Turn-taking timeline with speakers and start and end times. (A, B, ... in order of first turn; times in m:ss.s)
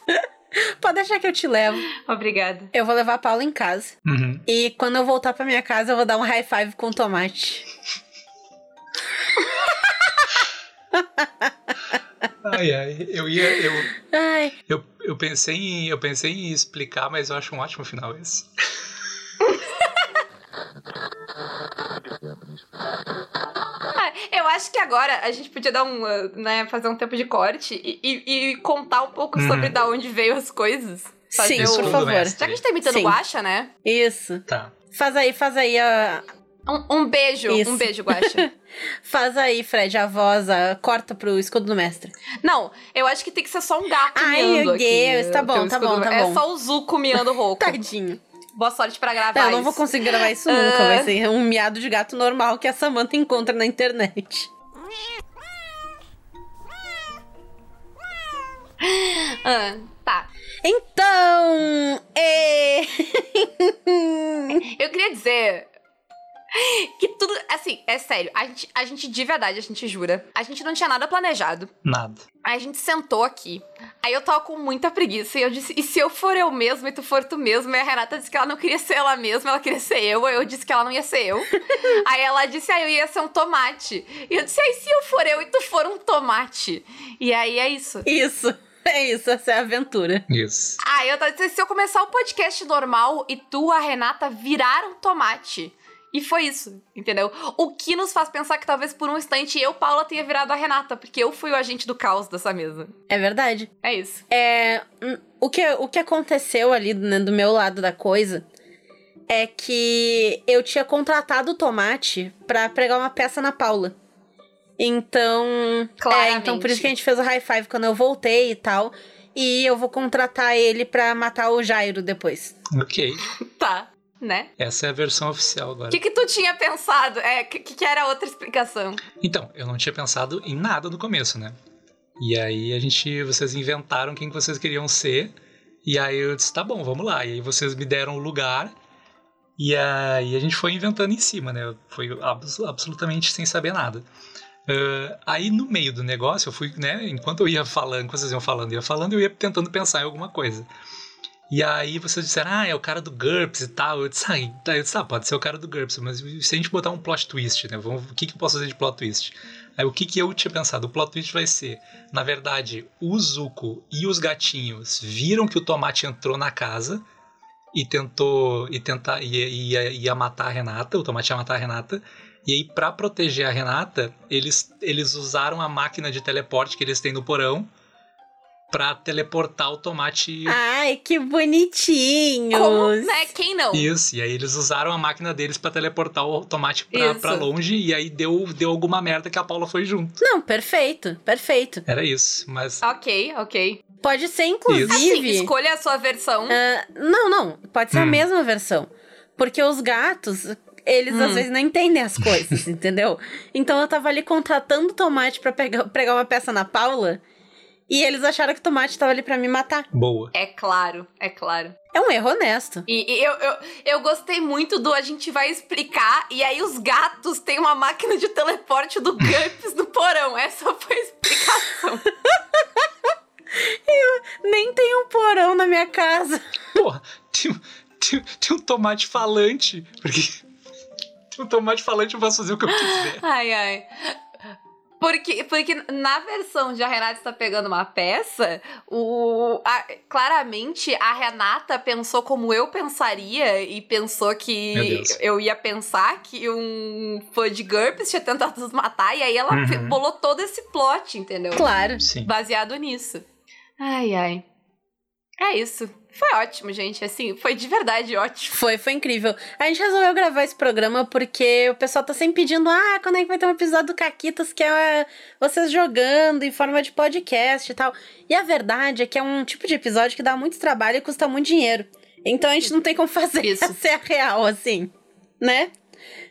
0:00.1-0:01.8 A
0:02.0-0:02.7 B
0:02.7-0:03.9 A
0:04.0-0:04.4 C
0:04.5-0:07.6 A
0:10.9-0:11.5 A
0:12.4-0:14.0 C
0:14.0-0:14.5 A
0:14.7-0:18.5 C
0:23.9-0:33.7 B
0:29.4-0:29.7 C
0:31.4-0:33.2 A
0:31.5-0:32.6 C
0:33.8-0:36.2 A
0:36.6-0:38.4 B
0:37.5-0:38.5 A
0:39.0-0:42.1 A
0:42.4-0:47.8 B
0:44.1-0:46.4 A
0:47.6-0:48.2 A
0:48.6-0:51.1 B
0:49.3-0:54.5 A
0:58.8-1:00.3 B
1:00.6-1:04.6 A
1:04.6-1:05.7 B
1:06.5-1:11.7 B
1:11.8-1:12.2 C
1:12.4-1:28.0 B
1:28.0-1:30.2 A
1:30.3-1:30.8 C
1:30.8-1:42.9 B
1:43.1-1:43.7 A
1:43.8-1:44.2 B
1:44.3-1:48.4 A
1:49.3-1:53.9 A
1:54.8-2:02.6 A
1:56.0-1:56.9 B
2:02.7-2:03.2 C
2:03.4-2:04.5 B
2:04.6-2:06.0 C
2:05.9-2:09.0 B
2:09.2-2:11.6 C
2:12.2-2:15.3 C
2:15.8-2:18.7 C
2:19.6-2:24.0 C
2:24.7-2:30.7 C
2:31.5-2:47.0 C
2:47.7-2:57.7 C
2:58.7-3:00.6 C
3:00.5-3:03.3 A
3:02.5-3:03.9 B
3:03.7-3:10.2 C
3:06.9-3:07.5 B
3:10.2-3:11.8 A
3:11.9-3:12.8 C
3:12.8-3:13.8 B
3:14.0-3:15.5 A
3:14.7-3:15.0 C
3:14.8-3:16.6 B
3:16.5-3:27.2 A
3:17.9-3:18.2 C
3:21.1-3:21.4 B
3:27.9-3:29.9 A
3:29.9-3:30.3 C
3:30.3-3:31.7 B
3:31.9-3:32.8 A
3:32.9-3:42.0 B
3:42.4-3:42.6 A
3:43.6-3:46.4 A
3:46.8-3:50.4 C
3:51.3-3:53.2 C
3:52.7-3:54.2 B
3:55.0-4:11.6 B
4:04.7-4:05.2 C
4:09.5-4:10.0 C
4:11.5-4:12.0 A
4:12.0-4:12.3 C
4:12.2-4:13.2 B
4:13.8-4:14.4 B
4:15.4-4:18.6 B
4:18.5-4:35.7 A
4:33.4-4:33.8 B